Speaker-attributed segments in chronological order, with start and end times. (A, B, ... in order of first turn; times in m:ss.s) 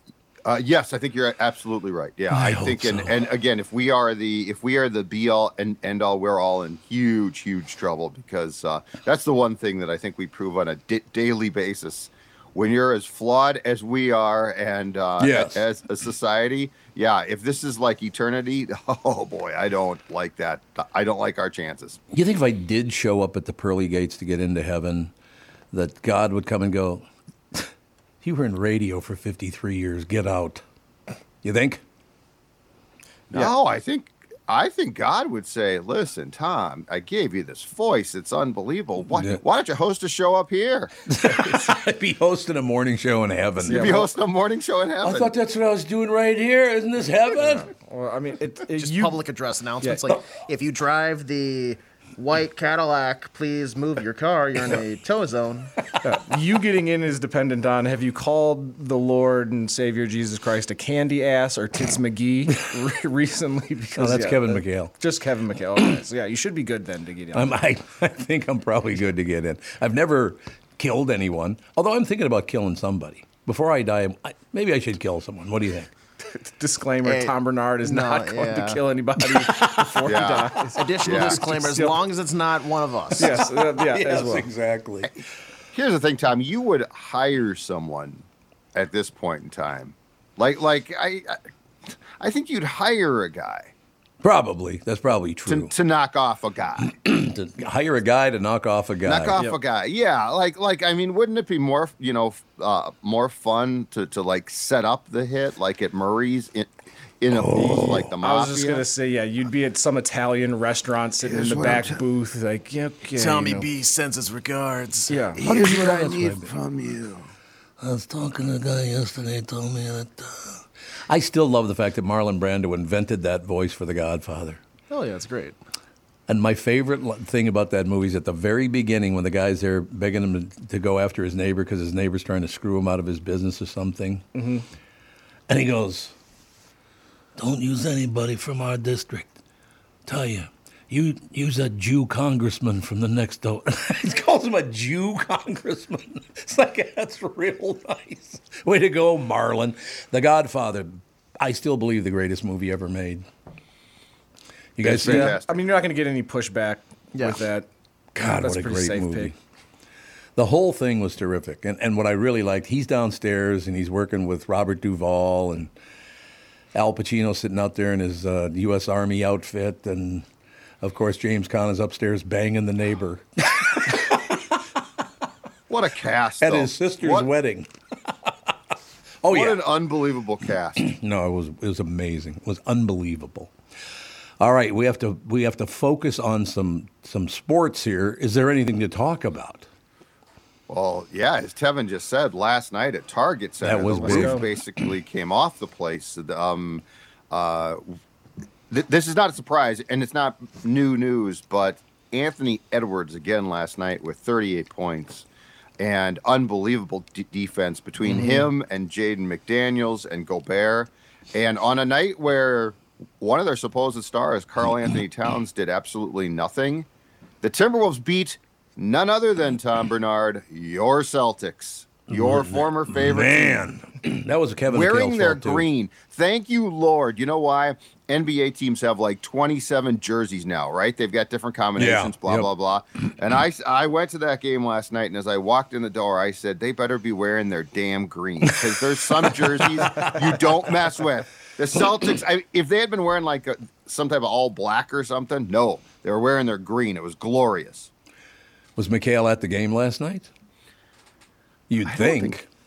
0:00.4-0:22.0 A
0:02.3-0:03.3 B
0:15.2-0:15.6 B
0:22.1-0:25.1 B
0:25.7-0:27.0 B
0:28.2-0:30.6 B
0:31.4-0:31.8 B
0:33.3-0:40.9 A
0:39.1-0:39.4 B
0:41.1-0:44.0 B
0:43.6-0:44.1 C
0:43.6-0:45.3 A
0:45.0-0:47.7 B
0:47.3-0:49.2 C
0:48.8-0:55.7 D
0:56.0-1:07.6 C
1:04.0-1:04.9 B
1:07.3-1:15.9 B
1:16.3-1:21.9 C
1:17.0-1:18.8 D
1:20.0-1:21.4 A
1:20.7-1:23.4 D
1:23.2-1:24.5 C
1:23.2-1:25.2 B
1:25.7-1:28.2 A
1:28.7-1:31.4 A
1:32.2-1:33.7 A
1:34.2-1:35.7 B
1:35.5-1:36.9 A
1:36.8-1:39.4 B
1:39.0-1:46.7 A
1:47.2-1:48.9 A
1:47.3-1:48.1 B
1:48.2-1:53.7 C
1:51.5-1:51.8 A
1:53.1-1:55.4 D
1:55.1-1:55.4 C
1:55.4-1:56.6 B
1:55.4-1:57.2 A
1:57.8-2:04.6 B
2:04.9-2:05.5 D
2:06.3-2:14.2 B
2:14.3-2:14.6 C
2:15.5-2:16.1 B
2:17.4-2:19.3 B
2:20.0-2:33.2 B
2:34.8-2:35.4 B
2:34.8-2:35.6 A
2:35.0-2:37.7 C
2:38.2-2:39.3 B
2:38.2-2:39.3 C
2:40.4-2:45.7 B
2:46.7-2:50.2 B
2:50.8-2:54.3 B
2:55.7-2:57.3 A
2:56.4-2:57.7 B
2:59.2-2:59.7 B
2:59.3-3:00.9 A
3:00.8-3:03.5 B
3:04.4-3:09.7 B
3:10.7-3:17.8 A
3:13.6-3:14.5 B
3:13.9-3:14.5 C
3:18.7-3:25.2 A
3:25.8-3:36.8 A
3:28.1-3:28.5 C
3:37.4-3:43.6 A
3:42.1-3:45.6 B
3:44.7-4:07.9 A
3:51.8-3:52.5 B
3:59.2-4:00.5 B
4:08.8-4:10.3 B
4:11.7-4:12.4 B
4:11.9-4:12.4 A